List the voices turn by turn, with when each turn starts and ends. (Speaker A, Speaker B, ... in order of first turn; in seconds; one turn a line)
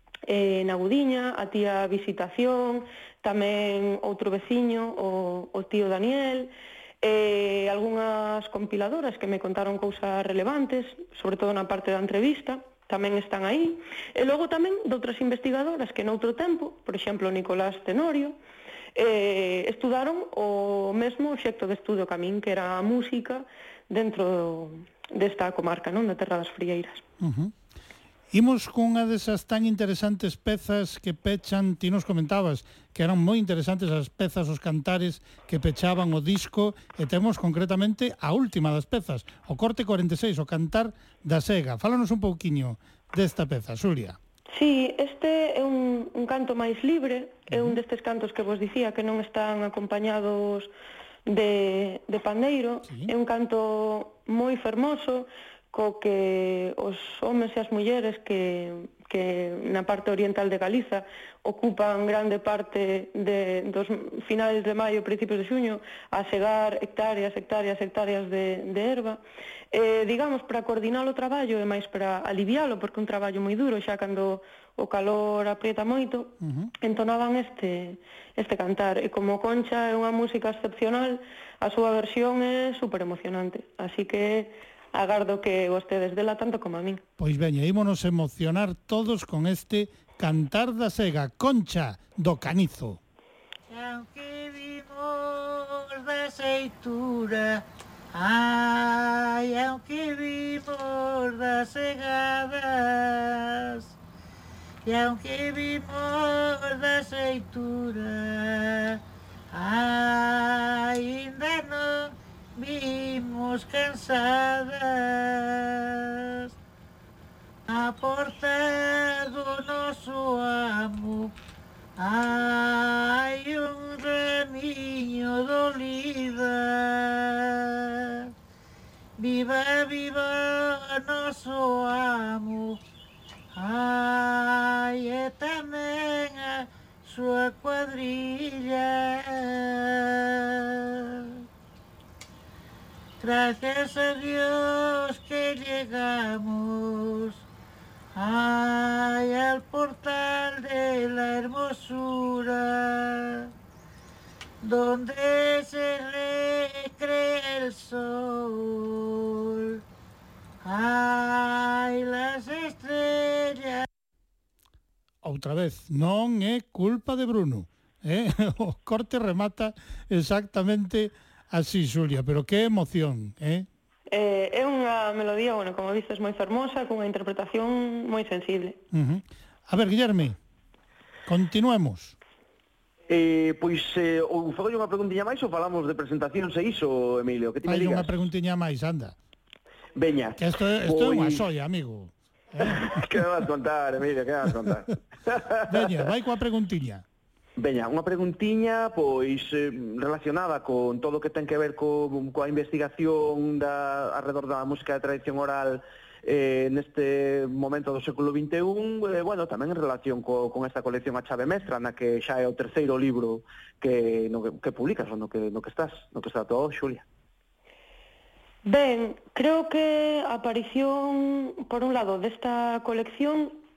Speaker A: 0.3-6.5
Speaker A: 7.0-18.4
Speaker A: 19.0-27.0
Speaker B: 27.2-27.5
Speaker B: 28.3-44.2
Speaker A: 44.5-50.7
Speaker B: 47.5-47.8
Speaker A: 51.3-69.2
Speaker A: 69.7-87.0
Speaker B: 76.4-76.7
Speaker B: 87.2-93.0
Speaker C: 93.7-103.9
Speaker C: 104.8-109.0
Speaker C: 109.5-116.5
Speaker C: 117.7-121.3
Speaker C: 122.0-128.3
Speaker C: 129.2-132.8
Speaker C: 133.6-141.3
Speaker C: 143.2-147.4
Speaker C: 148.2-153.5
Speaker C: 154.6-159.8
Speaker C: 160.6-163.8
Speaker B: 165.2-173.7
Speaker A: 174.1-178.8
Speaker B: 178.9-180.4
Speaker B: 181.3-182.2
Speaker D: 183.1-188.1
Speaker B: 187.7-189.2
Speaker D: 190.0-191.4
Speaker B: 190.4-192.8
Speaker D: 192.6-195.8
Speaker B: 195.7-197.0
Speaker D: 197.6-217.1
Speaker A: 218.7-223.6